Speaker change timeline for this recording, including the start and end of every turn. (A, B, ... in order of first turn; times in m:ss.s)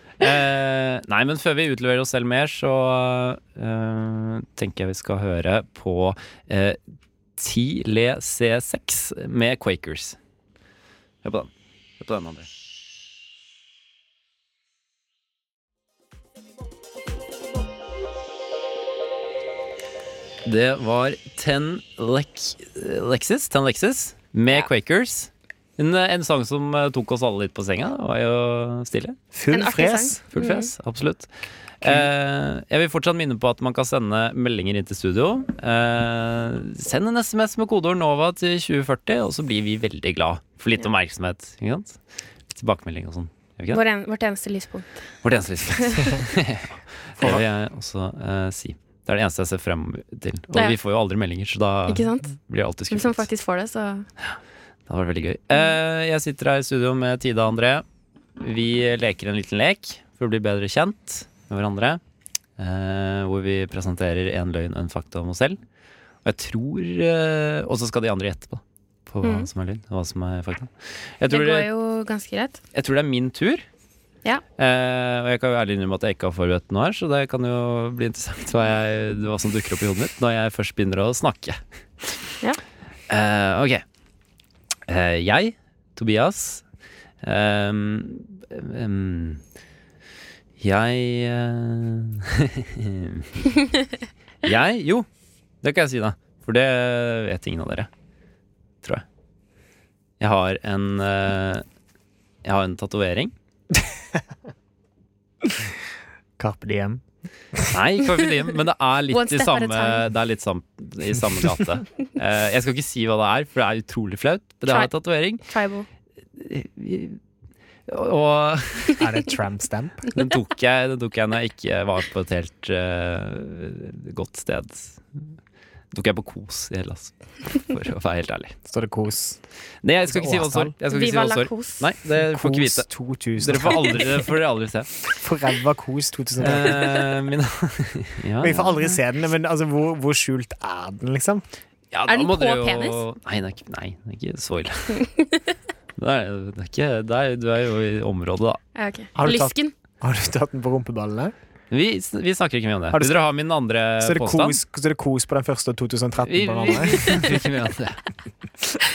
0:00.2-0:06.8 A
0:07.4-0:10.2 A
0:11.2-0:12.5 A
0:20.4-0:29.2 A
0:29.3-0:30.2 B
0:29.5-0:30.7 C
0:30.3-0:31.3 A
0:31.8-0:42.0 A
0:31.8-0:32.1 B
0:42.5-0:43.8 A
0:43.7-0:45.0 C
0:45.2-0:53.3 A
0:45.7-0:46.2 C
0:47.2-0:47.4 B
0:51.9-0:52.3 C
0:52.9-0:54.1 C
0:54.9-0:57.8 A
0:58.4-1:02.0 A
1:02.6-1:05.6 A
1:06.2-1:11.7 A
1:09.2-1:09.5 C
1:11.3-1:12.6 C
1:12.7-1:13.6 A
1:14.6-1:22.2 A
1:23.1-1:23.8 A
1:24.9-1:26.6 A
1:27.2-1:29.4 A
1:30.6-1:33.6 A
1:34.4-1:35.1 A
1:35.6-1:37.9 A
1:40.2-1:41.6 A
1:42.4-1:43.3 A
1:45.4-1:45.7 B
1:46.4-1:47.0 B
1:47.7-1:55.4 A
1:49.1-1:50.1 C
1:54.7-1:54.9 C
1:55.5-1:55.9 C
1:56.4-1:57.2 A
1:57.9-1:59.0 A
1:59.0-2:00.1 B
2:00.1-2:05.0 A
2:05.9-2:08.6 A
2:08.7-2:09.4 B
2:09.8-2:15.0 A
2:10.1-2:10.7 B
2:10.9-2:11.9 C
2:12.1-2:14.3 B
2:15.1-2:17.0 B
2:16.4-2:19.0 A
2:18.4-2:21.4 B
2:21.9-2:25.1 A
2:22.1-2:23.0 C
2:26.0-2:28.6 A
2:28.8-2:29.7 C
2:29.2-2:31.3 B
2:31.7-2:34.6 A
2:32.9-2:33.2 B
2:34.0-2:37.3 B
2:36.2-2:38.0 A
2:36.9-2:37.2 C